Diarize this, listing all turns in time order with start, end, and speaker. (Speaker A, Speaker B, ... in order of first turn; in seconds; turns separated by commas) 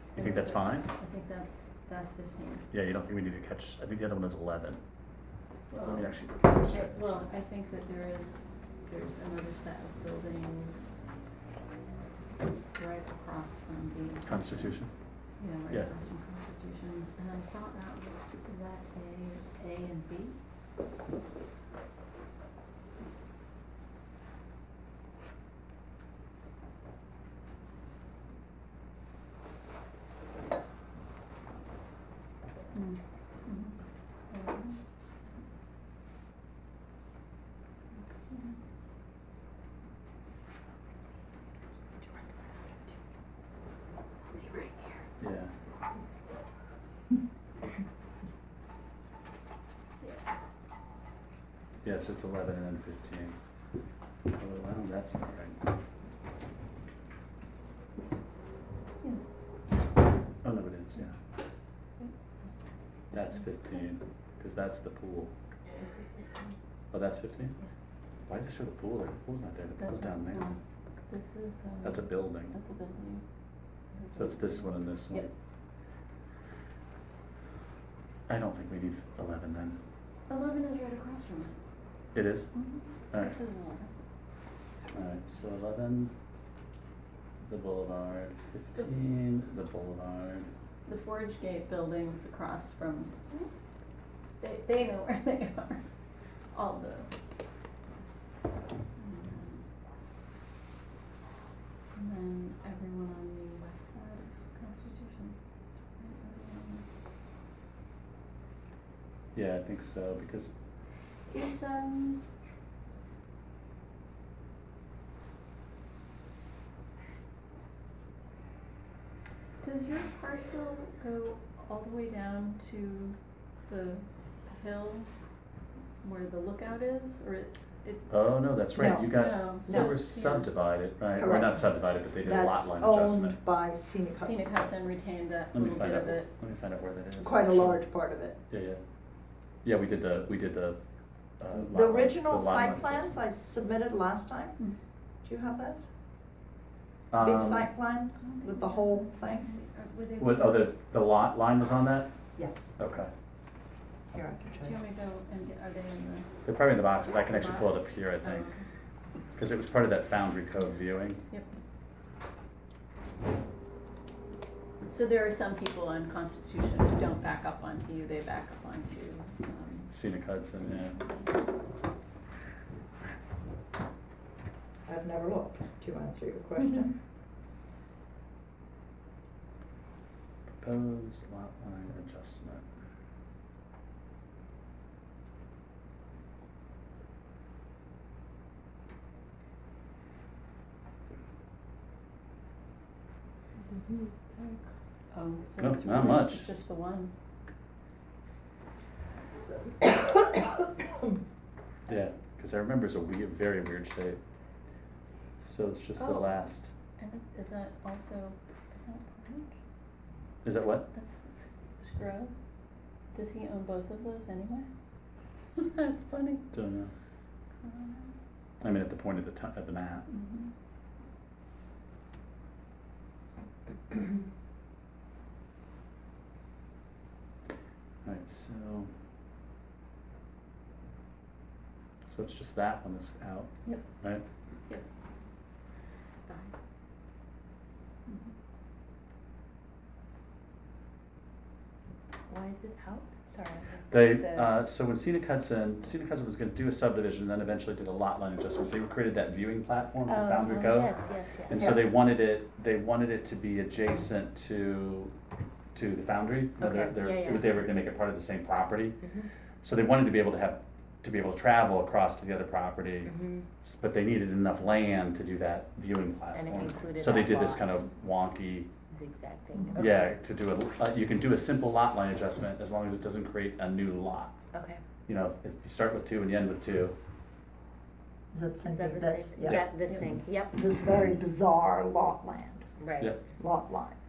Speaker A: 0.1-0.9, Speaker B: 0.2-2.6, Speaker A: 2.7-4.8, Speaker B: 5.7-10.9, Speaker A: 5.8-7.3, Speaker B: 12.8-14.8, Speaker A: 14.2-14.9, Speaker B: 15.4-20.3, Speaker B: 32.7-33.7, Speaker B: 34.3-34.8, Speaker B: 38.0-38.6, Speaker B: 44.4-45.0, Speaker A: 45.2-45.5, Speaker A: 51.8-53.3, Speaker A: 54.3-55.6, Speaker A: 60.4-61.1, Speaker A: 63.1-65.3, Speaker A: 66.9-67.6, Speaker A: 68.3-70.5, Speaker B: 69.8-70.6, Speaker B: 71.1-73.2, Speaker A: 71.8-72.5, Speaker B: 73.9-75.3, Speaker A: 74.2-75.3, Speaker A: 78.3-79.8, Speaker B: 80.3-81.6, Speaker A: 82.1-82.5, Speaker B: 82.6-83.9, Speaker A: 84.9-86.1, Speaker A: 87.4-90.5, Speaker B: 90.8-93.5, Speaker B: 94.4-95.8, Speaker B: 96.5-97.2, Speaker B: 99.0-99.6, Speaker B: 101.9-105.3, Speaker B: 105.9-106.9, Speaker A: 109.3-110.5, Speaker B: 111.3-112.2, Speaker B: 119.6-125.1, Speaker B: 126.0-128.1, Speaker A: 128.1-133.4, Speaker C: 128.8-129.9, Speaker B: 129.1-130.5, Speaker C: 131.2-131.6, Speaker C: 132.2-134.5, Speaker B: 134.2-136.3, Speaker A: 135.5-137.8, Speaker C: 137.2-138.4, Speaker A: 138.5-138.8, Speaker A: 139.6-140.8, Speaker A: 141.4-143.2, Speaker C: 141.6-144.6, Speaker C: 145.2-145.9, Speaker A: 147.1-147.7, Speaker C: 147.1-149.5, Speaker B: 148.2-150.7, Speaker A: 150.2-152.1, Speaker C: 152.4-152.7, Speaker A: 152.8-153.1, Speaker C: 154.1-154.8, Speaker B: 154.6-156.3, Speaker A: 156.4-158.5, Speaker B: 157.3-158.6, Speaker A: 159.4-161.2, Speaker B: 164.9-169.9, Speaker A: 169.9-170.9, Speaker B: 170.8-171.3, Speaker C: 174.9-176.9, Speaker A: 180.6-182.7, Speaker B: 195.1-197.1, Speaker A: 195.6-196.5, Speaker C: 199.8-200.9, Speaker A: 201.9-204.2, Speaker A: 205.4-206.7, Speaker B: 206.0-206.3, Speaker B: 207.0-209.5, Speaker A: 210.4-210.9, Speaker B: 210.9-212.3, Speaker B: 213.1-214.7, Speaker B: 215.6-216.4, Speaker A: 216.5-216.9, Speaker B: 217.6-218.1, Speaker A: 218.6-220.1, Speaker B: 220.1-220.5, Speaker A: 228.1-228.9, Speaker A: 232.1-233.5, Speaker D: 236.3-236.5, Speaker D: 242.3-244.5, Speaker A: 243.9-250.9, Speaker D: 250.1-251.7, Speaker A: 251.5-255.1, Speaker C: 251.6-251.8, Speaker A: 255.7-259.0, Speaker D: 256.6-257.6, Speaker A: 259.6-268.7, Speaker D: 263.1-263.4, Speaker D: 266.3-267.7, Speaker D: 268.9-270.0, Speaker B: 269.5-269.8, Speaker A: 269.8-274.3, Speaker D: 274.5-274.8, Speaker A: 275.1-276.9, Speaker C: 278.3-279.7, Speaker D: 278.6-280.6, Speaker A: 279.4-279.7, Speaker C: 280.5-282.7, Speaker D: 282.8-283.2, Speaker C: 283.3-283.9